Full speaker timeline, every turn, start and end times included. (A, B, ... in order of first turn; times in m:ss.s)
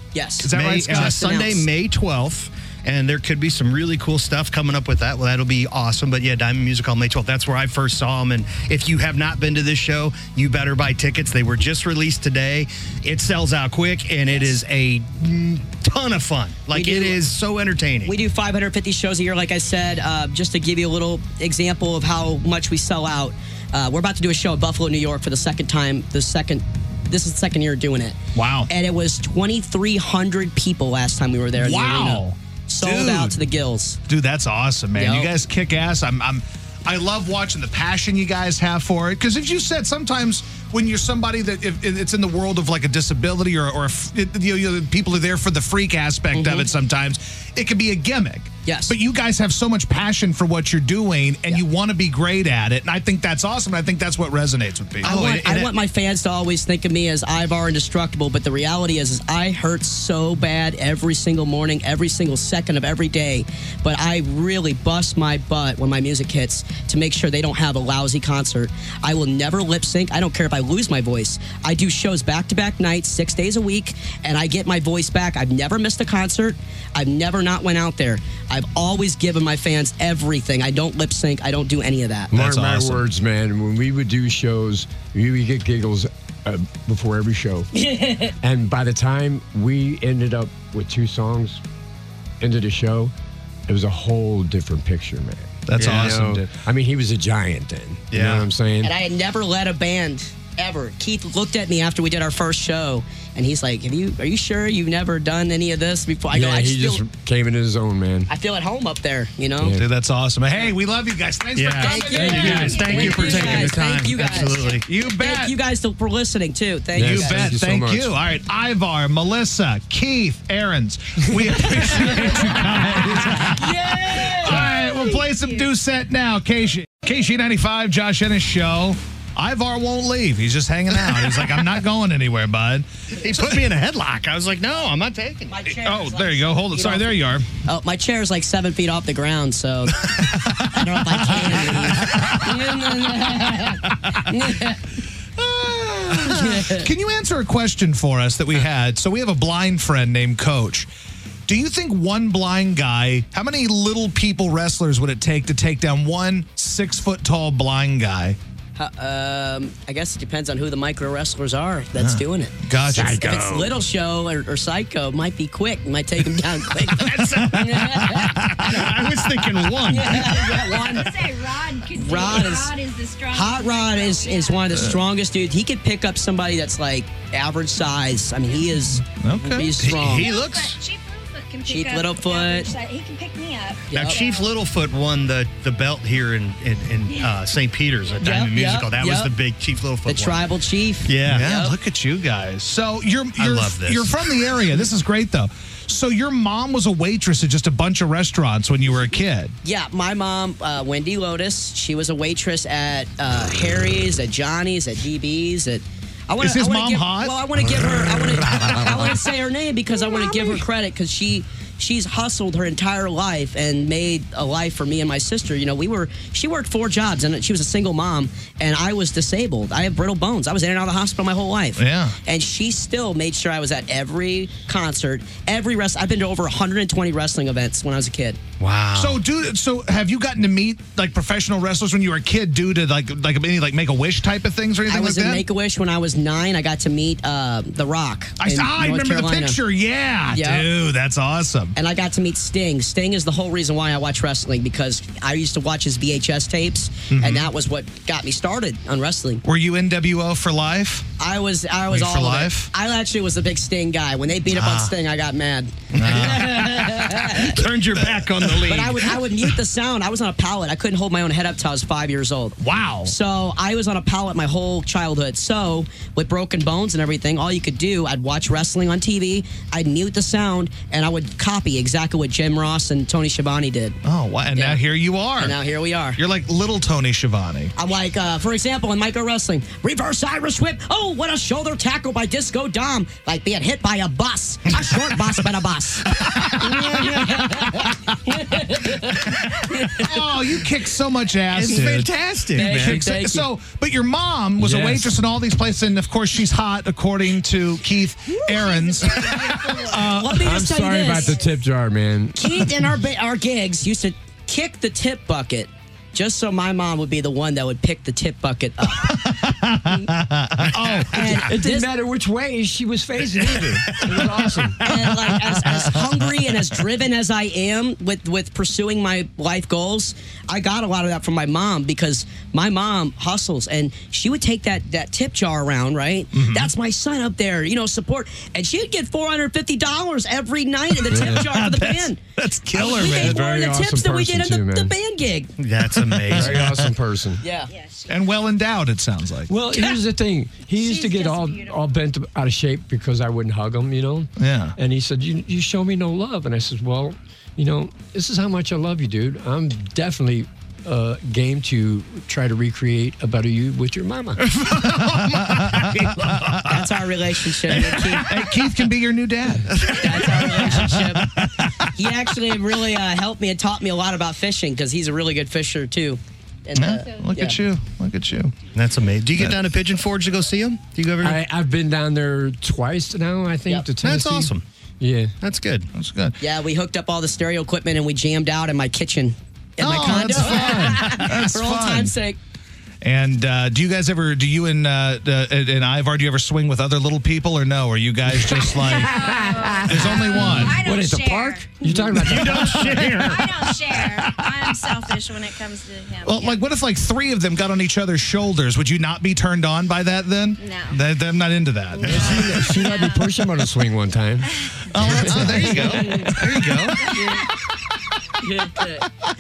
0:00.1-0:01.7 A
0:00.4-0:01.3 B
0:00.5-0:18.1 C
0:16.7-0:17.2 A
0:18.0-0:28.2 A
0:28.3-0:28.7 B
0:28.7-0:34.0 A
0:31.6-0:33.4 B
0:34.1-0:55.2 B
0:34.9-0:35.3 A
0:46.3-0:46.7 A
0:48.6-0:48.9 A
0:55.0-0:55.7 C
0:55.0-1:22.3 A
1:22.3-1:23.0 B
1:22.3-1:27.7 D
1:27.7-1:28.3 A
1:28.4-1:31.6 D
1:32.4-1:33.1 D
1:33.7-1:38.9 D
1:35.7-1:36.5 B
1:35.7-1:36.3 C
1:38.1-1:38.4 C
1:38.8-1:47.0 A
1:46.3-1:48.3 D
1:48.3-1:49.8 A
1:49.6-1:49.8 D
1:49.7-1:53.5 B
1:51.5-1:54.8 C
1:51.8-1:57.6 A
1:52.1-1:53.7 D
1:54.8-1:55.6 B
1:56.9-1:58.1 D
1:57.0-2:13.6 B
2:02.0-2:05.2 A
2:13.2-2:15.6 C
2:15.5-2:24.8 A
2:15.7-2:17.5 B
2:20.4-2:22.7 B
2:25.4-2:30.9 B
2:26.1-2:26.8 A
2:31.5-2:38.4 B
2:38.8-2:48.5 A
2:42.0-2:43.8 B
2:47.0-2:50.7 C
2:47.5-2:48.9 B
2:49.9-2:51.1 A
2:50.6-2:54.8 E
2:52.0-2:52.7 A
2:53.3-3:00.3 A
2:59.0-3:00.0 B
2:59.5-3:00.8 C
2:59.6-3:04.5 E
3:01.6-3:02.7 A
3:03.9-3:04.2 A
3:03.9-3:10.4 C
3:08.2-3:09.3 A
3:10.0-3:11.7 A
3:11.0-3:11.4 C
3:11.2-3:19.6 B
3:13.4-3:14.2 C
3:19.6-3:48.4 A
3:26.4-3:29.2 B
3:30.2-3:30.6 E
3:41.8-3:42.2 B
3:48.6-3:49.2 C
3:48.9-3:55.4 B
3:54.9-3:59.6 A
3:58.4-4:01.8 B
4:00.3-4:00.7 A
4:01.8-4:09.4 A
4:07.1-4:07.5 B
4:09.4-4:11.1 B
4:11.2-4:17.6 A
4:11.9-4:12.7 B
4:14.5-4:14.9 C
4:15.9-4:16.6 C
4:15.9-4:19.2 B
4:17.3-4:19.2 C
4:18.6-4:34.0 A
4:22.6-4:23.1 B
4:34.0-4:35.6 B
4:34.5-4:34.8 A
4:35.4-4:36.2 A
4:36.2-4:37.7 B
4:37.7-4:50.2 A
4:44.8-4:45.2 B
4:46.0-4:47.9 B
4:49.0-5:00.5 B
4:51.5-4:53.0 C
4:52.5-4:53.5 A
4:54.6-4:55.1 D
4:58.4-5:00.2 E
4:59.9-5:01.4 A
5:00.4-5:02.8 D
5:01.1-5:01.5 E
5:02.3-5:10.1 A
5:09.1-5:09.8 B
5:10.7-5:11.5 B
5:11.1-5:11.9 A
5:11.1-5:14.8 D
5:13.5-5:16.3 B
5:14.8-5:32.2 A
5:26.3-5:26.7 B
5:31.1-5:33.4 B
5:31.1-5:31.4 D
5:32.7-5:35.5 A
5:32.8-5:34.9 D
5:35.6-5:36.7 C
5:35.9-5:36.9 B
5:36.3-5:37.4 D
5:37.4-5:37.7 A
5:37.7-5:38.2 E
5:38.1-5:39.5 B
5:39.5-5:54.4 D
5:40.7-5:41.9 E
5:44.4-5:44.8 B
5:54.5-5:56.9 B
5:54.6-5:56.6 C
5:56.6-5:58.4 A
5:57.6-6:01.9 B
5:59.7-6:00.0 C
5:59.8-6:01.3 A
6:01.9-6:07.6 A
6:06.7-6:08.6 B
6:08.7-6:11.4 C
6:11.2-6:15.3 D
6:14.0-6:14.6 C
6:15.4-6:15.9 C
6:15.9-6:16.4 B
6:16.4-6:22.4 A
6:19.8-6:22.1 B
6:23.0-6:30.8 B
6:28.5-6:33.2 D
6:28.7-6:32.2 E
6:32.2-6:33.7 C
6:33.0-6:36.6 E
6:33.0-6:35.0 B
6:36.2-6:42.7 B
6:40.6-6:41.0 E
6:42.0-6:46.9 D
6:42.6-6:43.4 E
6:44.9-6:47.0 B
6:45.1-6:47.3 C
6:47.0-6:47.4 E
6:48.4-6:48.9 A